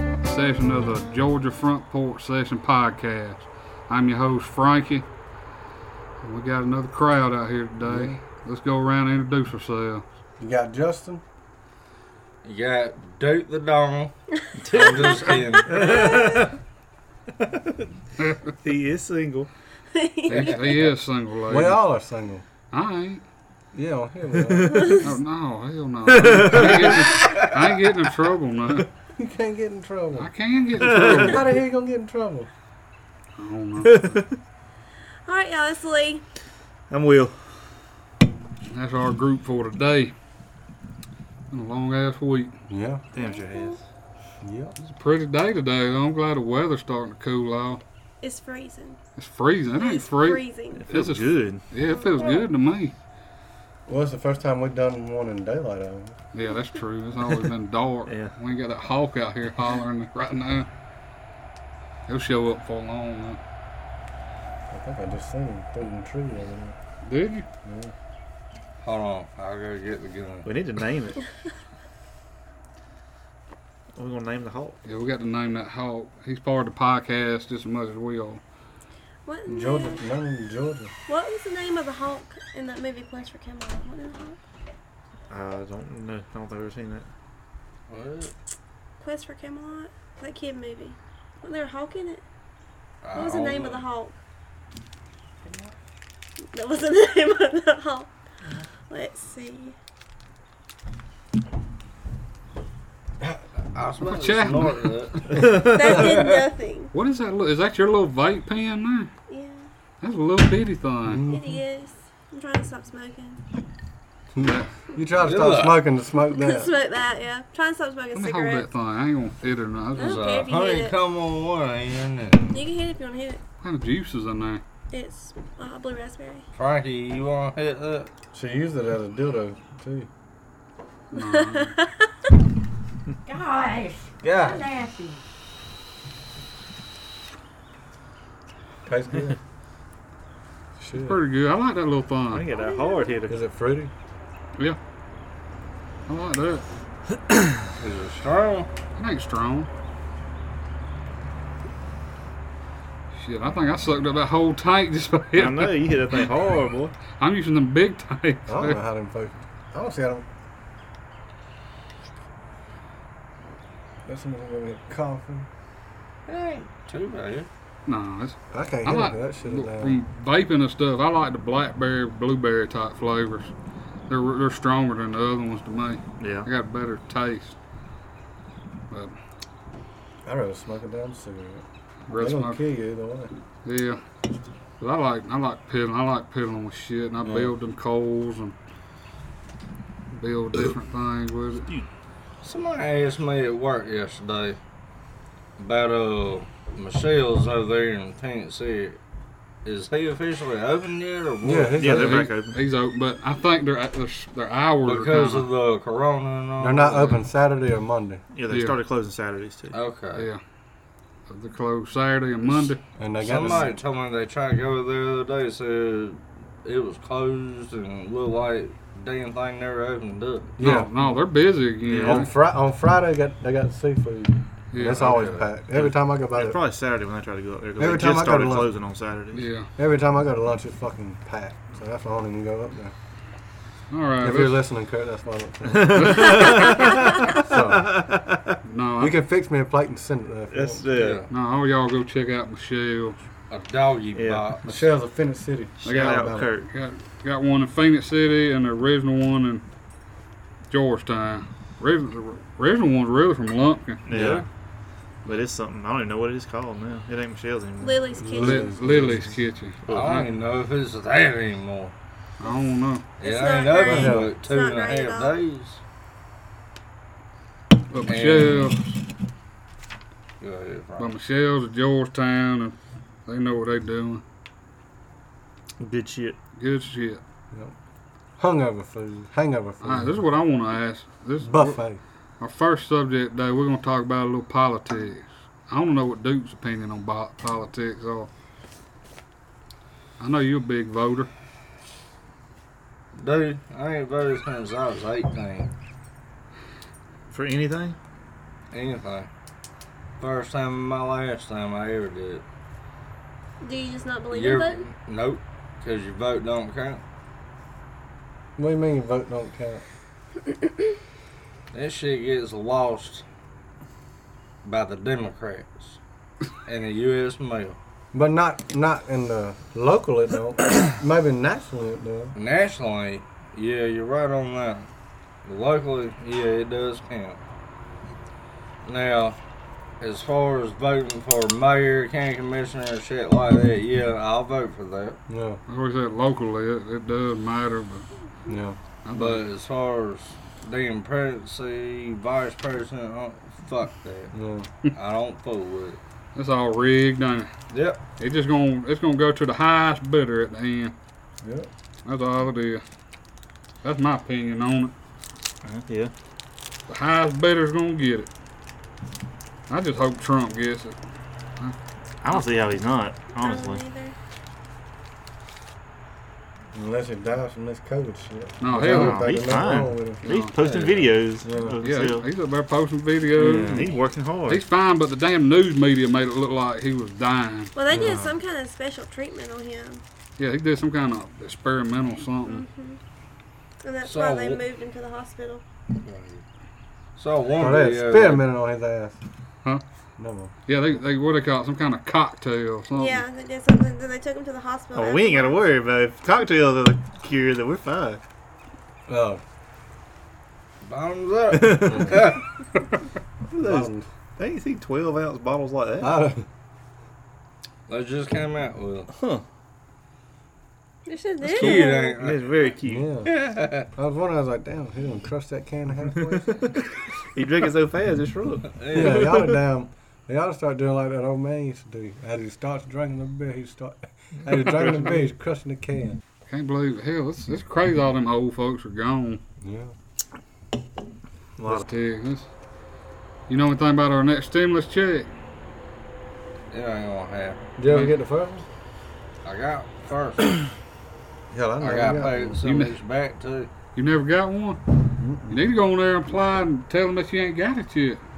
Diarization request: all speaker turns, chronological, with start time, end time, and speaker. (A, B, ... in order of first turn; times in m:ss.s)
0:00.2-0:05.1 A
0:06.2-0:10.0 A
0:07.8-0:08.2 B
0:10.4-0:11.2 B
0:12.4-0:14.1 C
0:14.6-0:16.6 D
0:14.7-0:15.9 C
0:14.7-0:16.5 E
0:18.5-0:19.5 D
0:19.9-0:20.8 E
0:20.3-0:21.8 A
0:21.5-0:22.4 B
0:22.7-0:23.2 A
0:23.7-0:25.0 B
0:24.4-0:25.0 D
0:24.7-0:25.1 E
0:25.0-0:28.9 A
0:26.1-0:27.2 D
0:29.2-0:30.3 B
0:30.2-0:31.5 A
0:30.8-0:31.4 D
0:31.0-0:32.5 B
0:33.4-0:34.2 A
0:33.8-0:34.4 D
0:35.3-0:36.2 E
0:36.9-0:37.4 D
0:38.7-0:40.1 A
0:41.5-0:42.5 A
0:42.7-0:43.0 B
0:43.1-0:43.8 D
0:43.2-0:43.8 E
0:44.4-0:44.8 B
0:44.8-0:47.8 A
0:48.2-0:49.0 E
0:49.2-0:53.0 A
0:49.8-0:50.9 E
0:50.8-0:51.6 D
0:52.0-0:52.4 E
0:53.9-0:56.2 B
0:56.3-1:00.7 A
0:58.1-0:58.3 D
1:02.1-1:03.4 A
1:04.7-1:06.8 B
1:07.0-1:07.5 A
1:07.6-1:07.9 B
1:08.8-1:10.5 C
1:10.4-1:11.2 D
1:14.0-1:14.8 D
1:14.9-1:18.4 A
1:19.2-1:20.1 E
1:19.5-1:20.9 B
1:21.1-1:24.4 E
1:25.3-1:27.1 D
1:27.9-1:28.3 C
1:29.0-1:32.2 E
1:33.0-1:33.8 C
1:33.1-1:34.2 E
1:35.4-1:35.7 F
1:36.5-1:38.1 E
1:38.9-1:39.8 E
1:43.7-1:46.5 C
1:44.0-1:45.1 A
1:45.3-1:46.0 D
1:45.4-1:46.9 E
1:46.9-1:49.1 A
1:49.3-1:49.7 E
1:50.0-1:51.3 A
1:51.0-1:51.6 B
1:51.3-1:53.4 E
1:54.4-1:56.7 B
1:54.4-1:54.7 A
1:55.2-1:55.8 C
1:56.3-1:58.7 E
1:58.2-2:00.3 A
2:00.0-2:01.0 E
2:00.0-2:02.6 C
2:02.5-2:03.4 E
2:03.6-2:04.6 A
2:04.9-2:06.4 E
2:06.6-2:08.1 C
2:08.3-2:10.1 B
2:11.1-2:11.7 A
2:11.1-2:12.1 E
2:13.3-2:15.2 F
2:14.2-2:14.7 C
2:18.8-2:19.4 B
2:20.8-2:21.2 B
2:20.9-2:22.5 A
2:22.3-2:23.4 D
2:23.3-2:23.9 B
2:26.1-2:26.6 A
2:27.8-2:28.7 C
2:29.0-2:29.7 A
2:33.1-2:36.3 A
2:35.4-2:36.9 D
2:37.2-2:38.8 A
2:38.5-2:40.3 B
2:44.1-2:45.5 B
2:46.3-2:47.5 C
2:47.9-2:53.5 A
2:48.5-2:50.0 B
2:54.1-2:57.6 A
2:56.2-2:56.5 D
3:00.2-3:03.3 B
3:02.1-3:02.6 A
3:03.6-3:04.0 A
3:04.8-3:08.6 A
3:07.2-3:07.5 B
3:10.1-3:11.7 A
3:12.4-3:14.6 C
3:15.6-3:19.0 C
3:19.6-3:21.8 C
3:21.4-3:22.2 B
3:21.8-3:22.6 D
3:21.8-3:25.5 A
3:24.8-3:27.2 C
3:26.6-3:28.2 B
3:28.3-3:29.8 D
3:28.5-3:28.8 A
3:29.7-3:30.3 C
3:30.2-3:30.4 A
3:31.3-3:32.8 A
3:33.0-3:33.7 B
3:33.2-3:40.6 C
3:40.6-3:40.9 B
3:40.6-3:42.3 A
3:41.9-3:42.3 D
3:42.0-3:46.6 B
3:44.7-3:45.2 A
3:44.9-3:45.5 C
3:45.7-3:49.5 D
3:47.8-3:48.7 B
3:49.3-3:49.7 A
3:49.8-3:52.9 B
3:53.9-3:54.6 A
3:54.2-3:58.2 B
3:55.7-3:57.3 D
3:56.0-3:56.8 A
3:58.7-3:59.2 A
3:59.0-4:00.8 B
4:00.5-4:01.3 D
4:00.9-4:01.3 C
4:01.3-4:03.2 A
4:03.5-4:04.6 C
4:04.1-4:04.6 D
4:04.7-4:06.5 B
4:05.8-4:09.6 A
4:05.9-4:06.7 D
4:10.7-4:14.1 A
4:14.1-4:14.4 D
4:14.1-4:14.4 B
4:15.2-4:18.1 D
4:17.8-4:18.8 E
4:18.2-4:19.4 B
4:18.3-4:20.3 A
4:19.8-4:20.3 D
4:19.9-4:21.9 C
4:22.4-4:23.1 A
4:23.2-4:25.4 E
4:23.2-4:25.8 C
4:23.8-4:24.3 B
4:27.9-4:29.0 A
4:28.1-4:28.8 C
4:30.4-4:31.1 C
4:31.0-4:34.2 A
4:35.8-4:36.4 D
4:36.6-4:37.2 A
4:38.4-4:40.2 B
4:39.8-4:41.8 A
4:41.4-4:42.0 B
4:42.4-4:48.3 A
4:50.2-4:51.3 A
4:53.2-4:55.7 C
4:57.3-4:58.0 D
4:58.7-4:59.3 C
5:00.2-5:02.4 C
5:03.6-5:04.8 E
5:04.3-5:07.0 C
5:08.6-5:09.8 B
5:11.7-5:13.2 C
5:14.6-5:16.0 C
5:16.6-5:17.8 C
5:18.1-5:22.4 B
5:22.4-5:24.9 C
5:25.4-5:27.4 C
5:28.8-5:29.4 C
5:30.0-5:35.2 C
5:35.3-5:35.6 B
5:35.7-5:38.1 A
5:38.5-5:38.8 B
5:39.0-5:39.4 A
5:39.1-5:44.3 C
5:44.3-5:44.7 B
5:44.9-5:46.0 C
5:46.4-5:47.5 A
5:47.7-5:48.0 C
5:48.2-5:51.0 A
5:51.4-5:51.7 B
5:52.0-5:52.8 A
5:53.8-5:54.9 A
5:55.6-5:56.1 D
5:56.9-5:58.3 A
5:59.7-6:01.0 A
6:02.2-6:03.9 D
6:03.4-6:04.2 E
6:06.7-6:10.3 B
6:08.6-6:09.4 A
6:08.8-6:12.3 D
6:10.2-6:10.6 A
6:10.6-6:11.1 C
6:11.4-6:11.8 B
6:11.8-6:17.7 A
6:13.4-6:14.6 D
6:17.8-6:20.0 E
6:17.9-6:18.4 D
6:17.9-6:18.2 B
6:20.4-6:22.6 A
6:22.4-6:23.0 E
6:23.8-6:25.6 E
6:24.0-6:24.6 C
6:26.0-6:26.4 C
6:27.2-6:28.5 C
6:27.6-6:29.2 B
6:30.2-6:30.5 B
6:30.7-6:33.2 A
6:32.9-6:35.6 E
6:34.9-6:38.2 D
6:39.1-6:39.4 B
6:40.8-6:42.4 C
6:41.6-6:42.2 D
6:43.5-6:46.1 D
6:43.6-6:44.1 B
6:46.0-6:46.4 B
6:47.9-6:49.1 C
6:49.1-6:49.4 D
6:51.1-6:52.2 E
6:51.4-6:52.7 C
6:51.4-6:53.1 D
6:52.8-6:53.3 B
6:53.3-6:53.9 C
6:53.9-6:56.6 B
6:56.5-6:56.8 D
6:57.4-6:59.4 D
6:58.8-6:59.3 C
6:58.9-7:06.2 B
7:06.5-7:09.4 A
7:09.6-7:09.9 B
7:11.6-7:11.8 D
7:11.7-7:12.5 A
7:13.5-7:15.3 A
7:16.7-7:17.6 C
7:17.8-7:18.6 B
7:17.9-7:18.1 A
7:19.4-7:20.6 C
7:21.5-7:22.6 B
7:21.8-7:23.7 C
7:22.6-7:23.0 A
7:24.0-7:24.8 A
7:25.2-7:25.7 B
7:25.5-7:28.2 A